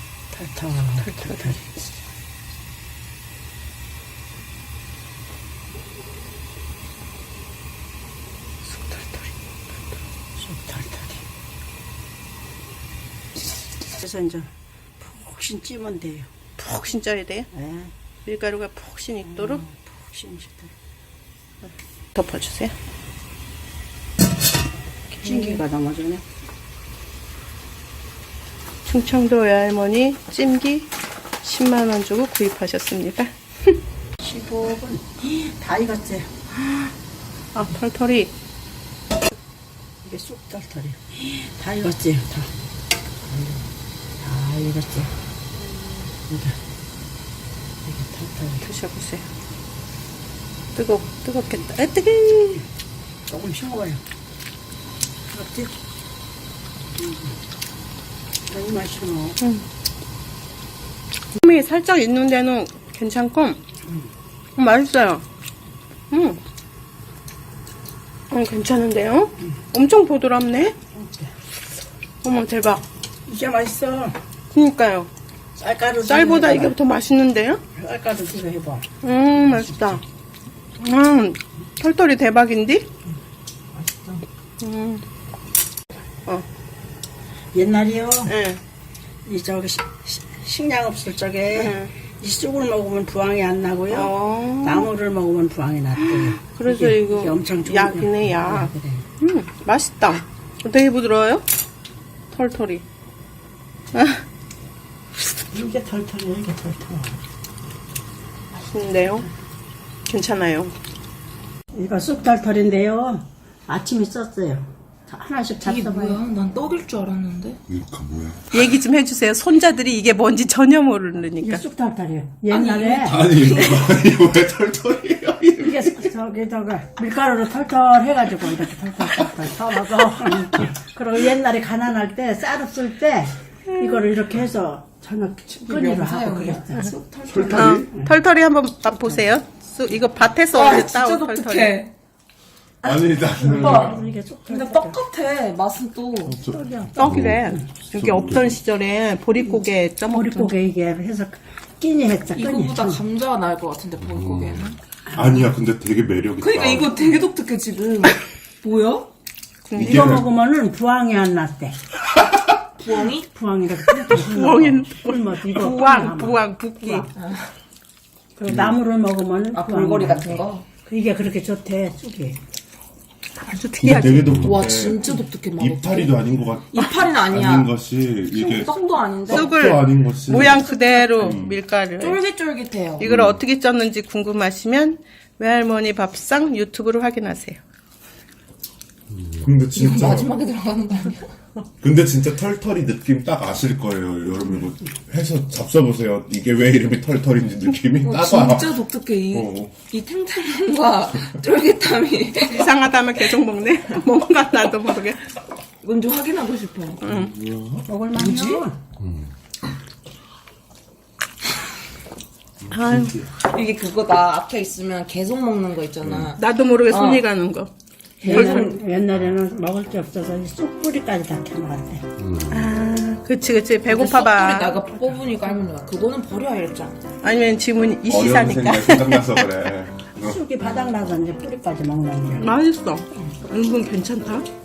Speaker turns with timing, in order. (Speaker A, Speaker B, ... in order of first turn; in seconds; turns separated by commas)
Speaker A: 0.3-1.7, Speaker B: 1.1-1.4, Speaker B: 8.7-9.3, Speaker A: 10.4-11.2, Speaker A: 14.0-16.3, Speaker B: 16.6-17.5, Speaker A: 17.5-17.9, Speaker B: 18.3-19.6, Speaker A: 19.3-20.7, Speaker B: 22.1-22.7, Speaker A: 25.2-26.2, Speaker B: 25.2-25.6, Speaker B: 28.9-33.8, Speaker A: 34.2-36.3, Speaker B: 37.5-38.3, Speaker A: 40.0-42.5, Speaker A: 43.2-43.7, Speaker A: 44.2-45.1, Speaker B: 45.6-46.1, Speaker A: 46.3-46.6, Speaker A: 47.9-48.6, Speaker B: 48.6-49.3, Speaker B: 50.8-52.6, Speaker A: 53.3-54.0, Speaker A: 55.3-55.8, Speaker A: 57.0-57.4, Speaker A: 58.5-59.4, Speaker B: 59.4-59.7, Speaker B: 61.4-63.6, Speaker B: 64.6-65.2, Speaker B: 66.1-66.4, Speaker B: 68.3-70.8, Speaker A: 71.0-71.3, Speaker B: 72.2-72.8, Speaker A: 73.3-74.2, Speaker B: 74.5-75.1, Speaker A: 75.6-76.8, Speaker B: 76.0-77.6, Speaker A: 77.7-78.9, Speaker B: 79.0-80.0, Speaker A: 79.5-80.0, Speaker B: 80.8-82.9, Speaker A: 83.7-84.2, Speaker B: 84.6-85.0, Speaker A: 87.5-88.3, Speaker B: 88.3-88.6, Speaker A: 89.3-99.1, Speaker B: 91.5-91.9, Speaker B: 93.9-94.9, Speaker B: 96.4-101.4, Speaker B: 102.3-102.8, Speaker B: 103.9-104.2, Speaker A: 105.5-107.2, Speaker B: 108.5-109.3, Speaker B: 110.1-110.8, Speaker A: 111.7-116.2, Speaker C: 115.6-117.6, Speaker D: 117.7-118.4, Speaker B: 118.5-121.6, Speaker A: 121.4-123.3, Speaker C: 122.5-123.9, Speaker D: 123.0-126.0, Speaker A: 125.6-136.9, Speaker B: 133.8-134.0, Speaker C: 135.6-137.8, Speaker D: 137.3-137.9, Speaker B: 137.5-141.8, Speaker C: 140.5-141.9, Speaker D: 142.8-144.1, Speaker A: 142.9-145.0, Speaker C: 143.5-146.5, Speaker D: 146.3-147.4, Speaker A: 146.4-147.6, Speaker B: 146.9-150.6, Speaker D: 147.9-148.5, Speaker A: 150.1-153.0, Speaker C: 152.3-154.8, Speaker D: 154.1-157.2, Speaker A: 155.1-155.4, Speaker C: 156.4-159.1, Speaker B: 159.7-160.2, Speaker D: 159.8-160.3, Speaker A: 159.8-161.8, Speaker C: 162.8-163.3, Speaker A: 163.3-167.1, Speaker B: 164.0-167.1, Speaker C: 167.2-167.4, Speaker A: 168.4-172.4, Speaker D: 168.5-168.8, Speaker C: 169.5-170.7, Speaker B: 173.4-174.5, Speaker D: 173.8-180.6, Speaker C: 174.4-177.7, Speaker C: 178.3-179.8, Speaker B: 179.3-182.2, Speaker C: 180.5-181.2, Speaker D: 181.2-181.6, Speaker C: 182.0-183.1, Speaker B: 183.0-187.6, Speaker D: 183.1-183.4, Speaker D: 189.4-190.3, Speaker C: 189.7-191.3, Speaker D: 191.8-199.7, Speaker C: 198.0-202.7, Speaker B: 202.4-205.3, Speaker C: 205.8-207.0, Speaker B: 207.0-207.4, Speaker D: 207.2-207.8, Speaker A: 207.8-208.8, Speaker C: 208.1-208.7, Speaker B: 212.7-213.2, Speaker D: 212.7-213.3, Speaker C: 213.4-217.2, Speaker B: 216.3-217.7, Speaker C: 218.2-218.8, Speaker A: 218.2-222.1, Speaker B: 218.2-218.8, Speaker B: 222.5-224.8, Speaker C: 223.9-227.0, Speaker B: 227.2-229.5, Speaker D: 228.1-230.4, Speaker A: 230.2-232.5, Speaker B: 232.4-234.5